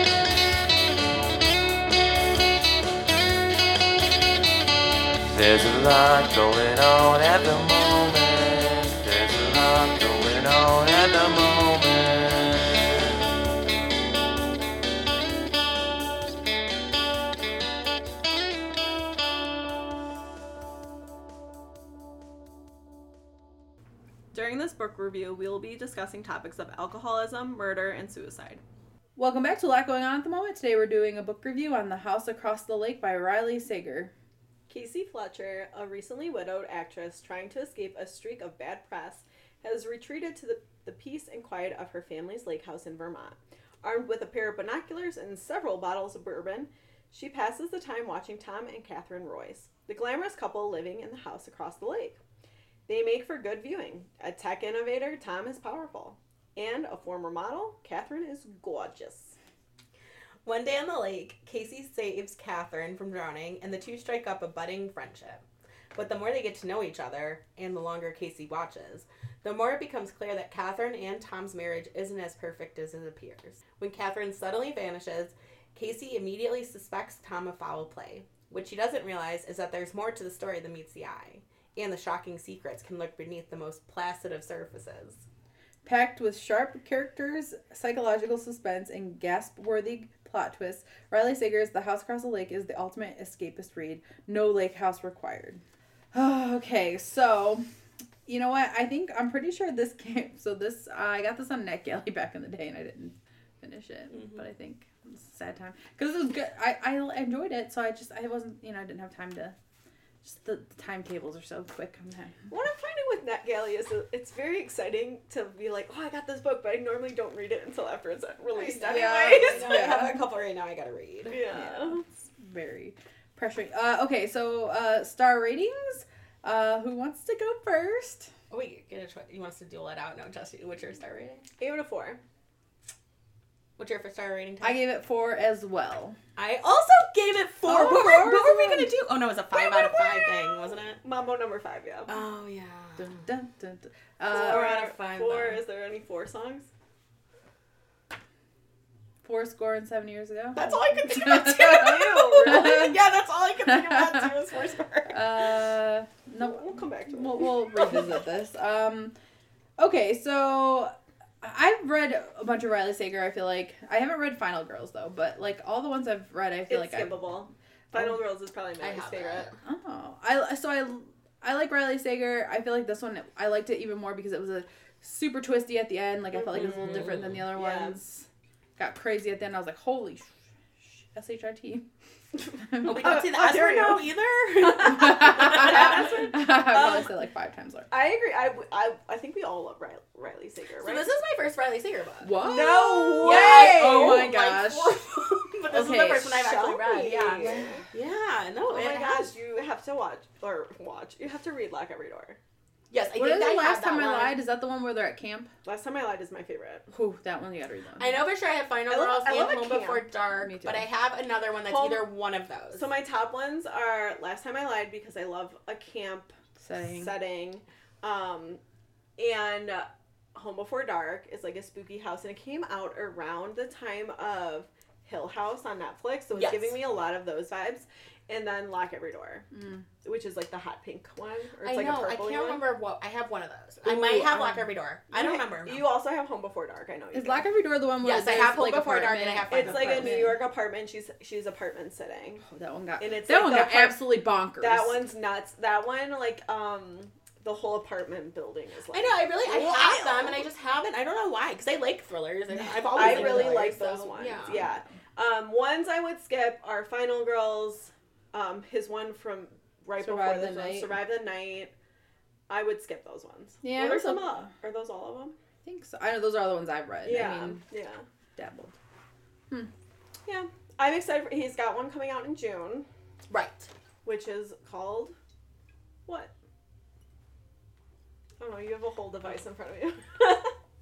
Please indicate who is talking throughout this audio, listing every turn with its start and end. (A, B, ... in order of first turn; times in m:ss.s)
0:05.3-0:13.2 A
0:24.3-0:28.6 B
0:29.2-0:34.1 C
0:34.7-0:52.2 B
0:52.9-0:59.4 B
1:00.4-1:25.2 D
1:25.8-1:35.6 C
1:36.1-1:37.6 C
1:38.2-1:49.5 C
1:44.1-1:44.4 D
1:50.2-1:52.5 C
1:52.5-2:00.0 B
1:58.5-2:00.2 C
1:58.7-2:01.4 D
2:01.3-2:02.0 B
2:01.5-2:08.3 C
2:08.5-2:11.4 D
2:11.6-2:12.2 B
2:13.8-2:14.8 D
2:14.6-2:16.2 C
2:16.4-2:21.0 D
2:17.6-2:18.9 C
2:19.5-2:22.1 B
2:22.1-2:23.2 D
2:23.0-2:24.7 C
2:24.3-2:25.6 D
2:24.3-2:26.7 B
2:29.2-2:33.0 C
2:30.6-2:35.6 D
2:31.6-2:32.8 B
2:33.7-2:34.3 C
2:35.1-2:39.1 C
2:36.4-2:38.0 B
2:37.7-2:38.0 D
2:39.8-2:47.2 C
2:46.7-2:49.5 B
2:48.8-2:49.6 D
2:49.6-2:58.3 C
2:56.3-2:58.0 B
2:56.5-2:57.4 D
2:58.8-3:01.8 C
3:02.7-3:02.9 C
3:02.8-3:06.2 D
3:02.8-3:04.1 B
3:04.8-3:07.9 C
3:04.9-3:07.1 B
3:07.9-3:11.1 B
3:10.8-3:19.3 D
3:12.2-3:15.0 C
3:12.4-3:14.2 B
3:15.7-3:16.4 C
3:16.3-3:17.8 B
3:17.4-3:17.8 C
3:18.6-3:22.4 B
3:22.9-3:24.4 D
3:23.1-3:25.5 C
3:25.6-3:26.9 B
3:26.9-3:28.2 C
3:28.0-3:32.9 D
3:28.9-3:30.1 B
3:30.4-3:30.8 C
3:31.7-3:32.1 B
3:32.7-3:36.3 B
3:36.6-3:37.1 C
3:36.9-3:38.6 B
3:39.2-3:49.5 B
3:46.3-3:46.8 D
3:49.5-3:49.8 C
3:50.0-3:52.6 B
3:51.6-3:55.8 D
3:53.9-3:54.6 C
3:55.1-3:57.4 B
3:57.1-4:00.4 C
3:58.0-4:00.2 D
3:59.5-4:02.4 B
4:02.5-4:05.0 C
4:03.0-4:04.0 B
4:04.6-4:10.4 B
4:08.9-4:14.6 D
4:12.9-4:21.7 B
4:13.0-4:13.7 C
4:20.0-4:20.9 C
4:22.5-4:25.4 B
4:23.6-4:24.5 C
4:25.6-4:27.6 C
4:27.0-4:28.0 B
4:28.4-4:28.7 C
4:30.2-4:32.9 B
4:33.3-4:33.7 D
4:34.0-4:35.1 B
4:36.1-4:36.3 B
4:38.4-4:40.5 B